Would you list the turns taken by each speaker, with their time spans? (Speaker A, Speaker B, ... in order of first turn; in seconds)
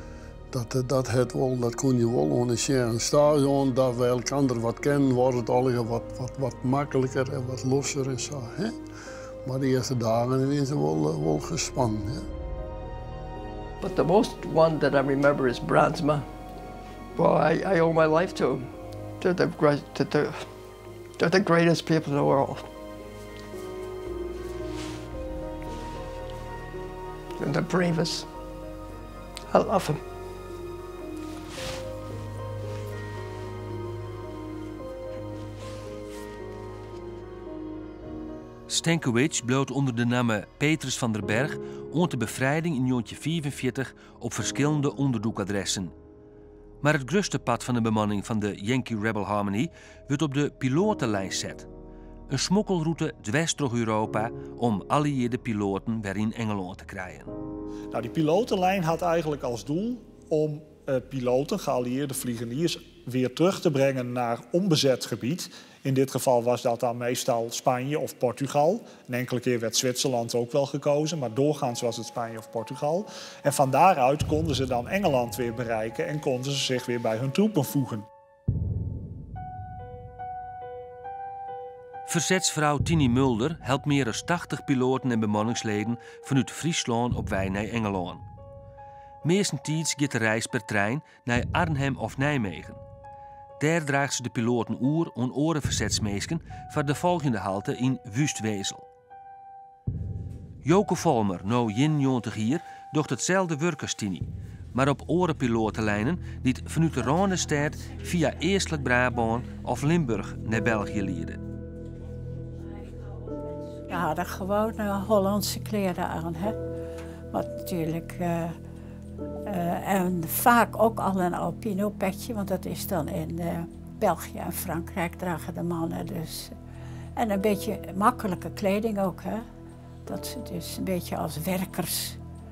Speaker A: 0.5-8.7, 9.4-12.2
Speaker B: 13.8-16.3, 17.1-20.5, 21.2-22.7, 27.4-28.3, 29.5-30.0
Speaker C: 38.7-45.9, 46.8-51.7, 52.3-57.3, 82.1-88.2, 89.2-92.8, 93.6-98.9, 100.6-111.4
Speaker D: 57.9-78.0
Speaker E: 113.9-116.6, 117.3-118.5, 119.5-126.5, 127.2-129.4, 130.1-132.2